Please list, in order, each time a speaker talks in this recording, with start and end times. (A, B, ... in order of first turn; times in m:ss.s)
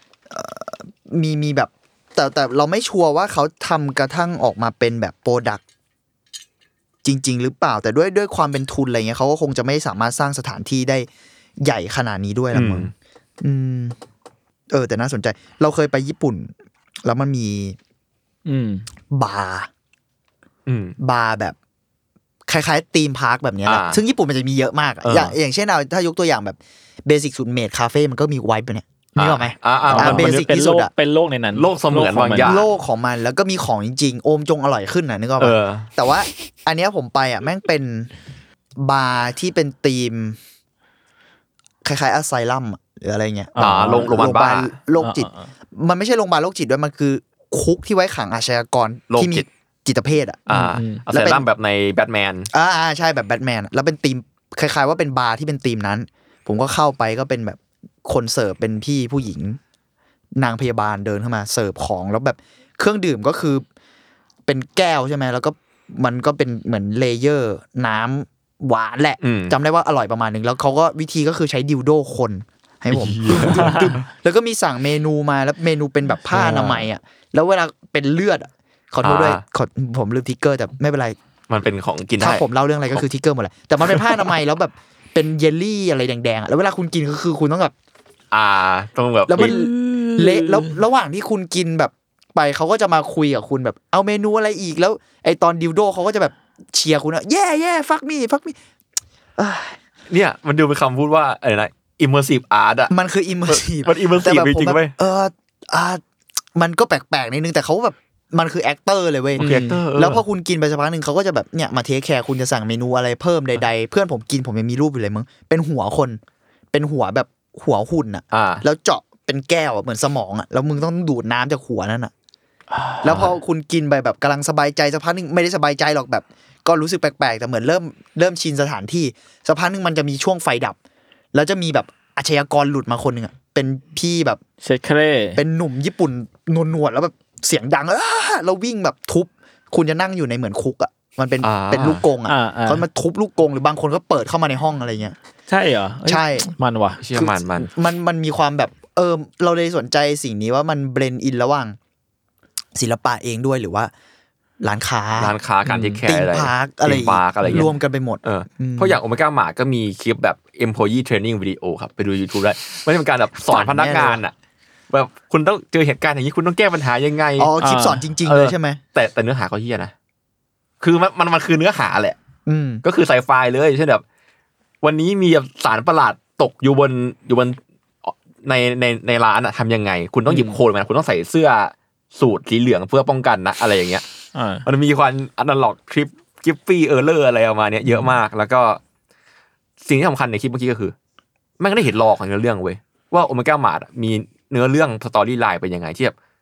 0:00.3-0:05.6 A
0:07.0-0:11.1 A
0:11.6-0:14.0 A
0:12.5-0:12.9 B
0:14.7-0:16.5 A
0:17.0-0:17.8 A
0:18.4-0:18.9 C
0:19.1-0:19.7 A
0:20.7-0:21.0 B
0:21.0-0:21.6 A
0:22.5-0:30.9 A
0:23.6-0:24.0 B
0:25.0-0:25.4 B
0:29.1-0:30.4 B
0:29.9-0:32.6 C
0:31.5-0:32.7 B
0:32.4-0:38.1 A
0:35.4-0:35.9 B
0:38.8-0:40.4 A
0:41.8-0:50.5 A
0:43.6-0:44.2 C
0:43.6-0:44.7 B
0:45.0-0:45.5 C
0:49.1-0:49.5 B
0:50.5-0:52.5 B
0:50.5-0:51.0 C
0:51.1-0:51.4 A
0:52.5-0:59.6 A
1:00.4-1:03.6 A
1:04.4-1:21.2 A
1:09.2-1:09.6 B
1:12.9-1:14.0 B
1:13.4-1:13.9 C
1:16.3-1:16.9 B
1:19.0-1:19.4 B
1:21.5-1:23.0 B
1:22.2-1:27.7 A
1:23.8-1:24.3 B
1:28.3-1:30.7 B
1:29.3-1:38.6 A
1:39.4-1:39.8 A
1:40.1-1:42.9 B
1:42.9-1:46.0 A
1:43.5-1:44.9 B
1:46.6-1:56.2 A
1:49.4-1:49.8 C
1:49.4-1:50.2 B
1:56.7-2:02.1 A
1:58.3-1:58.6 B
2:02.7-2:03.1 C
2:03.0-2:10.8 A
2:03.0-2:03.3 B
2:11.3-2:14.4 A
2:14.6-2:15.4 C
2:15.4-2:25.2 A
2:21.4-2:22.0 B
2:22.3-2:22.9 C
2:25.5-2:27.0 C
2:26.0-2:26.5 A
2:27.0-2:27.7 B
2:27.1-2:31.8 A
2:32.8-2:33.9 A
2:34.6-2:35.4 A
2:35.2-2:44.3 B
2:35.6-2:36.0 C
2:36.0-2:39.0 A
2:43.5-2:44.2 A
2:44.9-2:47.5 B
2:47.4-2:48.8 A
2:47.6-2:48.0 C
2:48.2-2:49.9 B
2:50.8-2:52.2 B
2:52.4-2:52.8 A
2:52.8-2:54.0 B
2:54.8-3:04.0 B
3:00.3-3:00.6 C
3:04.3-3:04.7 C
3:04.6-3:08.8 B
3:07.9-3:08.1 C
3:09.8-3:10.9 B
3:11.6-3:16.1 B